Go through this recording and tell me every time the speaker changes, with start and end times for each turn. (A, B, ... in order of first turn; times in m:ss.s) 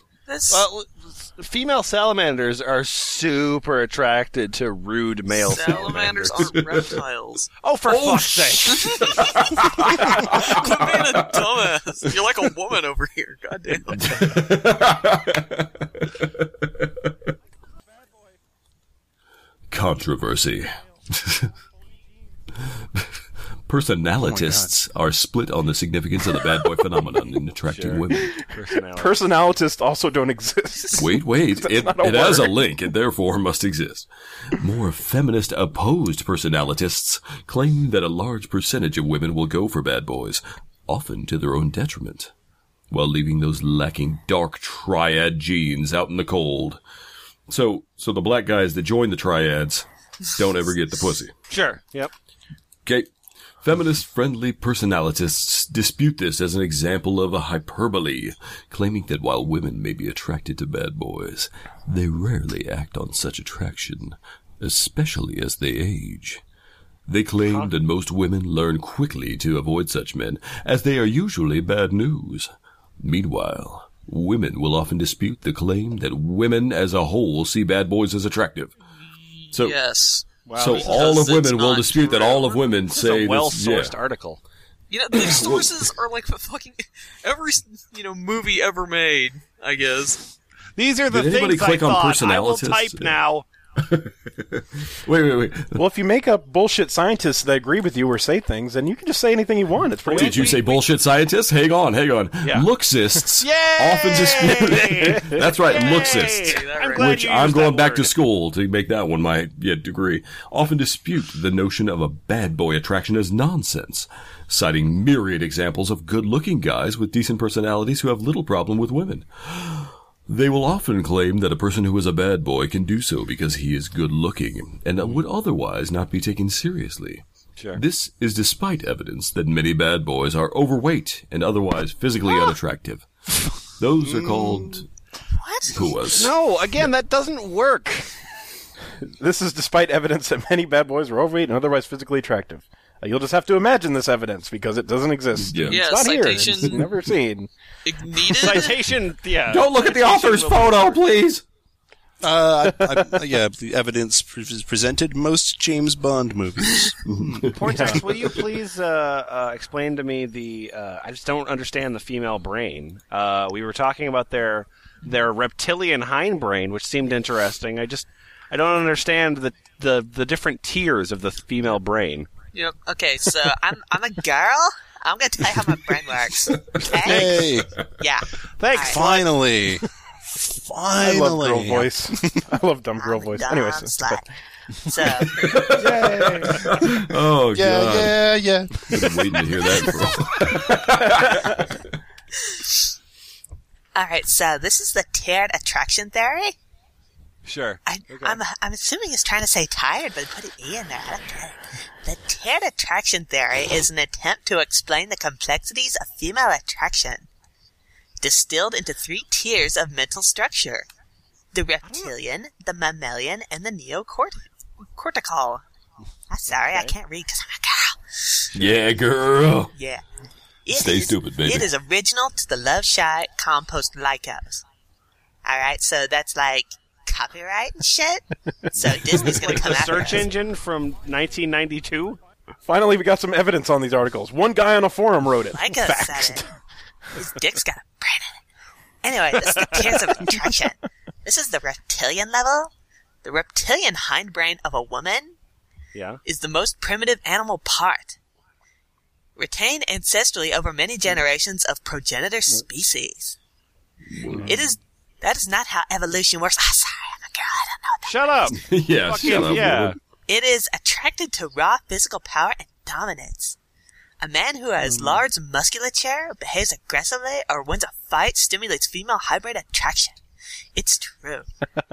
0:00.3-0:00.7 A
0:00.5-0:06.5 B
0:05.3-0:07.5 A
0:06.5-0:06.8 C
0:07.6-0:09.4 B
0:07.8-0:11.6 C
0:08.8-0:09.5 A
0:10.1-0:14.2 A
0:13.9-0:17.1 C
0:19.7-0:21.5 C
0:23.7-0:28.4 C
0:24.2-0:24.7 D
0:27.7-0:29.2 B
0:28.3-0:32.6 E
0:31.0-0:42.3 C
0:42.9-0:46.8 C
0:47.5-0:51.3 C
0:51.5-0:52.1 B
0:53.6-1:06.4 C
1:07.1-1:18.7 C
1:19.5-1:22.6 A
1:20.4-1:21.3 B
1:20.5-1:23.9 C
1:22.9-1:24.4 B
1:24.9-1:30.3 A
1:25.1-1:25.8 C
1:30.8-1:33.4 B
1:31.1-1:33.2 C
1:33.8-1:35.8 C
1:35.8-1:40.6 E
1:39.9-1:40.8 B
1:40.1-2:13.1 C
1:42.4-1:42.7 B
1:43.4-1:48.1 B
1:45.6-1:47.6 A
2:13.7-2:14.9 C
2:15.3-2:15.9 F
2:15.7-2:16.3 C
2:16.1-2:18.1 B
2:19.0-2:27.5 E
2:25.4-2:26.8 C
2:25.7-2:26.8 A
2:27.8-2:28.8 A
2:28.3-2:31.0 B
2:29.5-2:31.4 C
2:32.2-2:37.4 D
2:37.0-2:38.2 C
2:37.5-2:52.3 B
2:52.5-2:53.7 A
2:53.3-2:57.5 F
2:56.6-2:56.9 C
2:56.9-2:57.8 D
2:58.0-2:59.2 F
2:58.6-2:59.8 B
2:58.8-2:59.8 D
3:00.4-3:02.4 D
3:01.0-3:04.2 E
3:03.0-3:04.2 F
3:04.8-3:05.5 F
3:05.1-3:08.3 C
3:05.7-3:06.7 B
3:07.5-3:09.0 D
3:08.8-3:12.0 C
3:11.2-3:11.6 E
3:13.9-3:16.5 F
3:17.4-3:18.4 B
3:17.8-3:27.3 F
3:28.2-3:30.9 F
3:31.5-3:35.6 F
3:31.8-3:32.1 B
3:36.3-3:38.5 F
3:36.5-3:36.9 B
3:38.5-3:39.7 C
3:39.7-3:40.0 F
3:40.6-3:44.6 F
3:40.7-3:41.7 C
3:45.4-3:50.3 F
3:48.8-3:52.2 B
3:52.7-3:56.4 E
3:55.5-3:56.4 F
3:57.2-3:58.4 F
3:59.0-4:02.7 F
3:59.5-3:59.9 B
4:03.2-4:05.4 F
4:05.9-4:06.2 B
4:06.2-4:08.2 F
4:09.4-4:13.4 F
4:14.1-4:14.6 C
4:14.4-4:18.5 F
4:18.1-4:20.0 B
4:18.5-4:20.0 C
4:20.3-4:23.6 F
4:24.2-4:30.2 F
4:30.7-4:31.4 F